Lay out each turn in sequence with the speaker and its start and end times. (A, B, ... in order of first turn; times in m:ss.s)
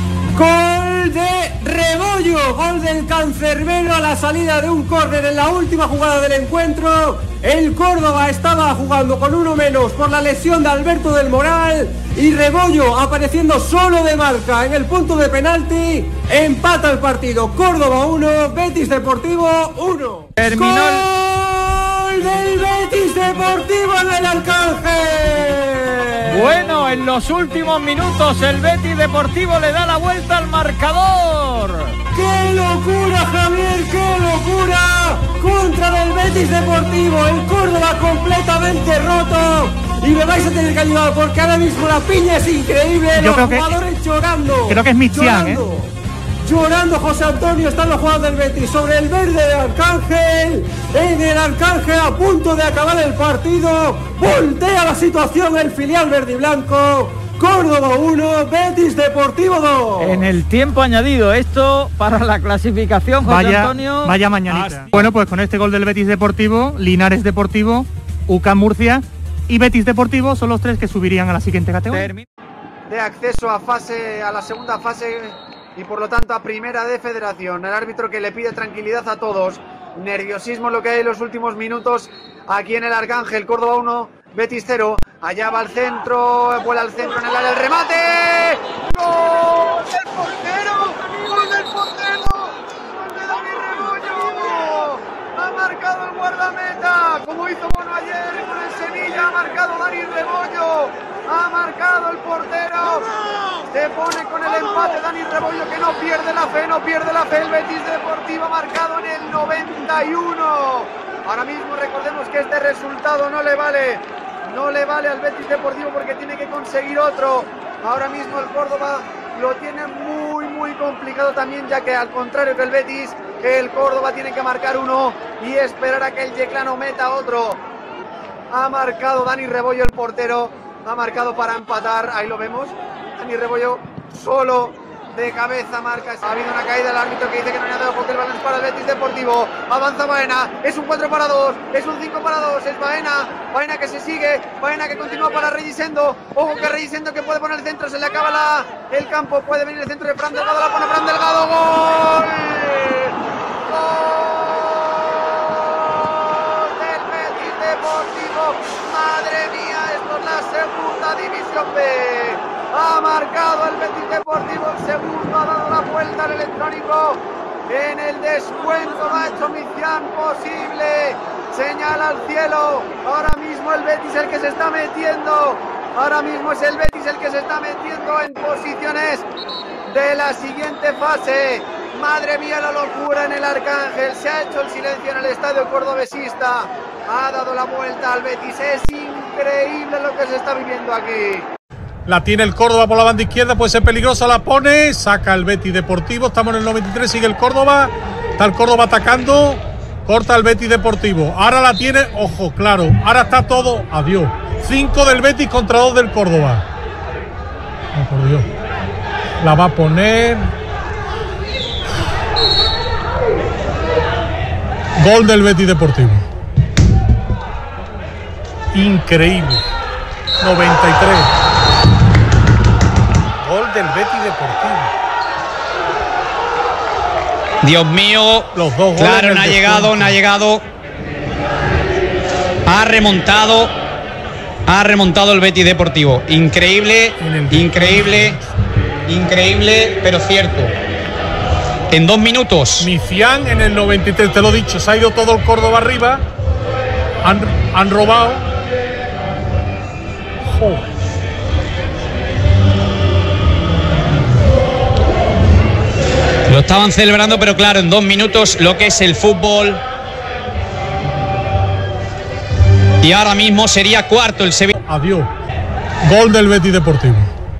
0:00.3-0:26.6 A
0:20.4-0:21.0 B
0:26.3-0:32.0 B
0:32.1-0:45.9 A
0:43.2-0:43.6 C
0:44.7-0:45.6 C
0:46.4-1:00.3 A
1:00.0-1:04.1 B
1:03.2-1:12.1 C
1:04.5-1:04.9 D
1:11.9-1:12.2 B
1:12.9-1:43.1 E
1:43.7-2:07.6 E
2:08.5-2:33.1 E
2:33.7-2:59.3 E
2:59.9-3:11.5 E
3:12.1-3:26.6 D
3:27.9-3:28.5 D
3:29.4-3:30.5 D
3:35.0-3:36.3 D
3:38.7-3:39.6 D
3:40.4-3:41.3 D
3:43.4-3:44.9 D
3:47.6-3:50.6 F
3:48.5-3:50.2 D
3:52.6-3:53.7 F
3:54.7-3:58.4 F
3:57.2-3:58.5 D
3:59.1-4:00.7 F
4:01.9-4:02.9 F
4:02.8-4:06.2 D
4:07.2-4:08.5 D
4:10.6-4:10.8 D
4:16.4-4:19.8 F
4:23.0-4:24.7 F
4:24.8-4:25.3 D
4:26.0-4:27.3 D